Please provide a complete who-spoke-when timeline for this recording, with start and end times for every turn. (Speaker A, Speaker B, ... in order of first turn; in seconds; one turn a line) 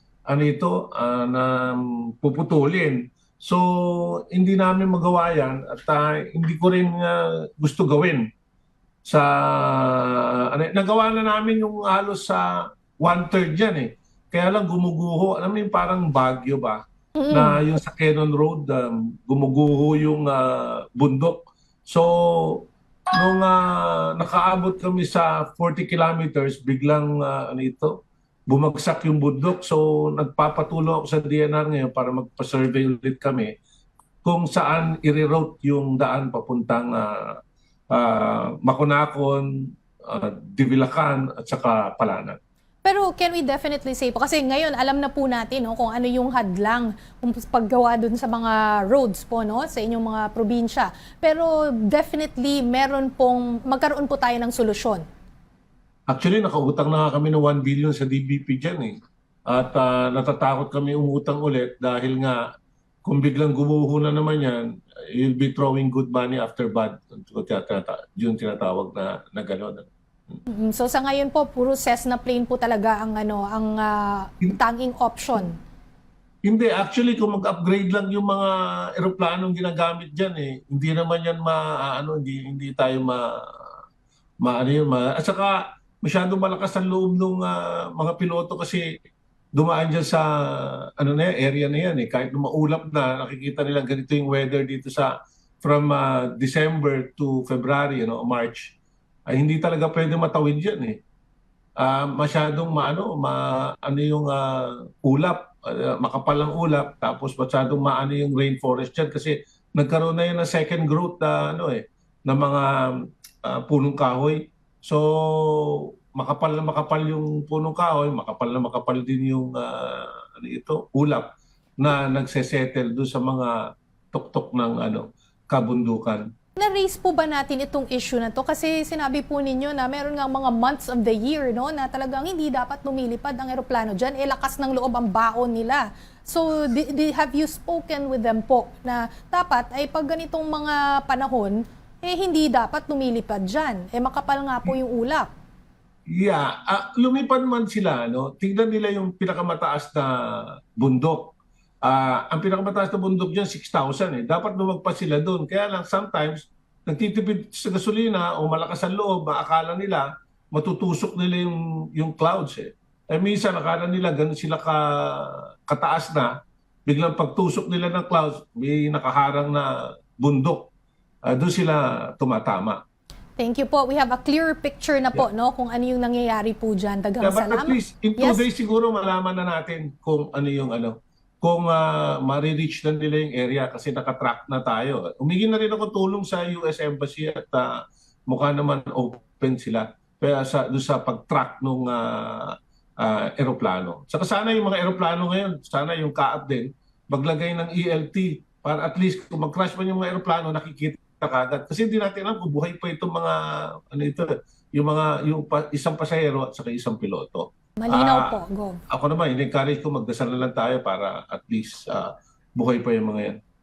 Speaker A: 0.3-8.2
Speaker A: 9.1-16.8
Speaker B: 17.2-17.6
Speaker A: 17.3-27.9
Speaker A: 28.5-33.5
Speaker A: 34.2-37.3
Speaker A: 37.9-39.5
Speaker A: 40.1-42.4
Speaker B: 42.9-55.0
Speaker A: 56.1-59.0
Speaker A: 59.5-62.4
Speaker A: 63.0-70.4
Speaker B: 70.5-75.6
Speaker A: 76.5-83.8
Speaker A: 84.4-88.8
Speaker A: 89.6-95.1
Speaker A: 95.6-98.7
Speaker A: 99.3-101.0
Speaker A: 101.8-112.7
Speaker A: 113.4-121.2
Speaker A: 121.8-123.6
Speaker A: 124.1-126.3
Speaker B: 126.6-145.3
Speaker A: 146.1-166.3
Speaker A: 166.9-170.7
Speaker A: 171.3-172.8
Speaker B: 173.4-178.4
Speaker A: 177.2-187.7
Speaker A: 188.3-208.3
Speaker B: 207.8-208.8
Speaker A: 208.9-213.4